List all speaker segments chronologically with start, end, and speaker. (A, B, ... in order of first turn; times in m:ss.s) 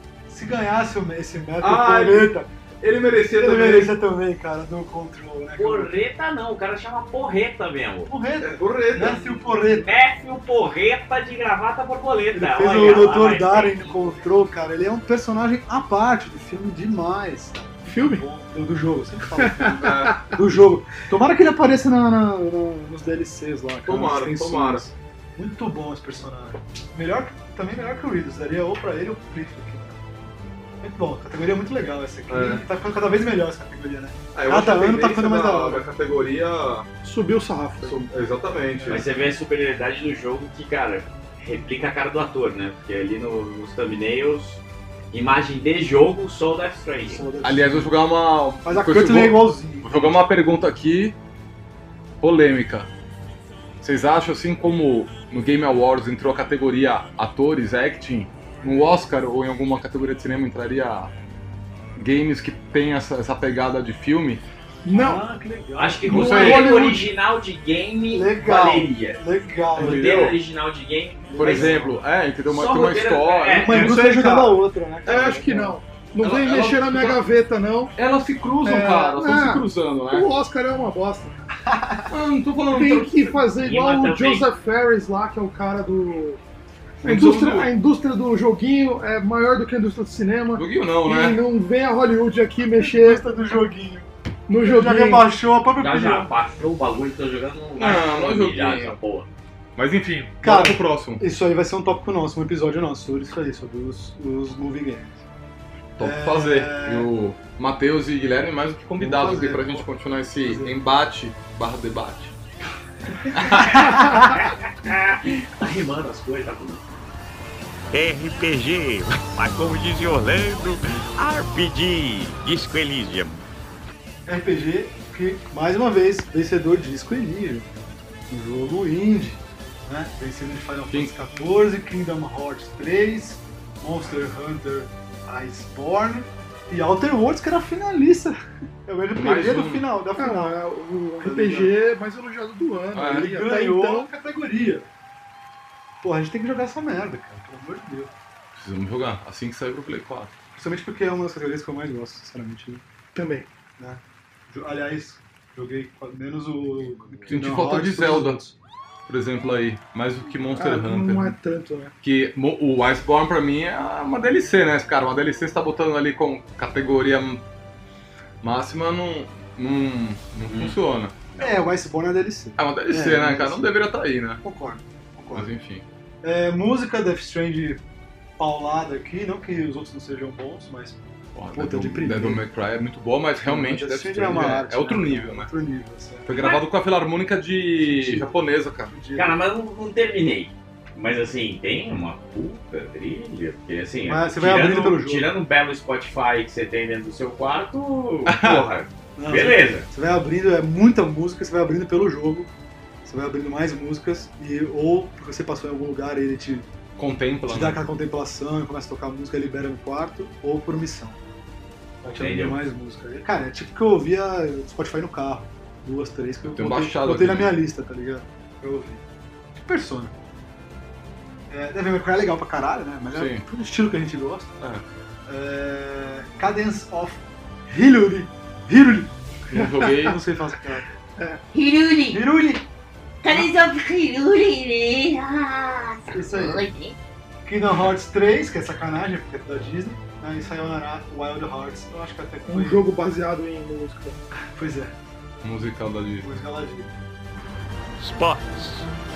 0:00.3-0:02.5 A
0:01.6-0:04.0 B
0:03.3-0:05.9 A
0:05.6-0:08.1 C
0:08.1-0:09.9 A
0:08.4-0:09.4 B
0:09.5-0:14.2 C
0:12.3-0:30.0 A
0:17.9-0:18.2 D
0:19.4-0:20.2 D
0:19.6-0:20.2 B
0:23.9-0:24.9 B
0:30.8-0:35.9 A
0:32.3-0:32.6 B
0:34.3-0:36.9 B
0:37.0-0:38.0 D
0:37.8-0:39.0 B
0:38.8-0:39.1 A
0:38.9-0:47.2 C
0:47.1-0:48.0 A
0:47.4-0:51.2 B
0:48.6-0:50.3 A
0:52.2-0:52.9 B
0:53.8-1:01.1 B
1:02.0-1:04.4 B
1:04.8-1:05.2 D
1:04.9-1:06.7 A
1:05.8-1:09.2 C
1:06.1-1:06.8 B
1:06.1-1:07.1 D
1:08.1-1:10.2 A
1:09.8-1:10.4 B
1:09.8-1:11.7 C
1:11.3-1:12.0 A
1:11.4-1:14.6 B
1:12.5-1:14.0 C
1:13.6-1:15.8 A
1:15.1-1:17.9 D
1:15.1-1:15.4 B
1:16.2-1:17.2 B
1:18.0-1:20.3 B
1:18.6-1:21.4 D
1:21.7-1:22.1 A
1:22.1-1:23.5 B
1:22.7-1:26.4 D
1:23.6-1:24.4 C
1:27.0-1:27.7 B
1:27.0-1:33.2 D
1:30.6-1:31.4 B
1:32.7-1:36.3 A
1:34.5-1:35.3 D
1:35.8-1:39.3 C
1:37.8-1:39.0 B
1:39.8-1:41.2 B
1:40.4-1:45.2 A
1:46.0-1:52.3 B
1:46.0-1:47.1 A
1:49.0-1:49.9 A
1:50.4-1:50.8 A
1:53.3-1:54.1 B
1:53.5-1:56.8 C
1:57.9-2:03.4 E
2:04.3-2:07.7 A
2:08.3-2:20.6 A
2:19.2-2:19.8 B
2:20.2-2:24.1 D
2:21.2-2:21.8 A
2:23.0-2:23.3 B
2:23.0-2:24.9 A
2:26.0-2:28.1 A
2:28.6-2:30.3 B
2:30.6-2:32.8 A
2:33.2-2:33.5 D
2:33.8-2:38.5 A
2:37.3-2:38.4 B
2:39.1-2:41.4 B
2:40.5-2:41.9 D
2:42.0-2:47.4 B
2:48.4-2:51.2 B
2:50.5-2:50.8 C
2:51.4-2:53.7 A
2:52.6-2:54.4 B
2:54.4-2:55.5 A
2:55.3-2:55.8 B
2:56.2-2:57.8 A
2:58.4-3:02.4 A
3:01.4-3:05.5 B
3:03.4-3:06.3 A
3:06.3-3:09.0 B
3:06.3-3:06.7 C
3:07.8-3:08.3 A
3:08.9-3:09.4 A
3:09.2-3:19.9 C
3:14.1-3:15.3 A
3:18.3-3:18.7 B
3:19.2-3:22.5 A
3:23.0-3:26.7 A
3:27.0-3:27.8 B
3:27.5-3:31.2 A
3:32.0-3:39.0 A
3:32.1-3:32.6 C
3:36.5-3:37.6 B
3:39.6-3:40.1 A
3:41.5-3:44.6 A
3:43.1-3:43.4 B
3:45.3-3:50.9 A
3:49.5-3:50.2 B
3:51.5-3:52.2 F
3:52.1-3:52.7 A
3:53.2-3:57.0 F
3:56.1-3:56.6 A
3:57.4-4:02.8 A
4:02.5-4:04.2 D
4:04.5-4:05.0 A
4:05.4-4:06.3 B
4:06.2-4:06.9 A
4:08.0-4:08.9 E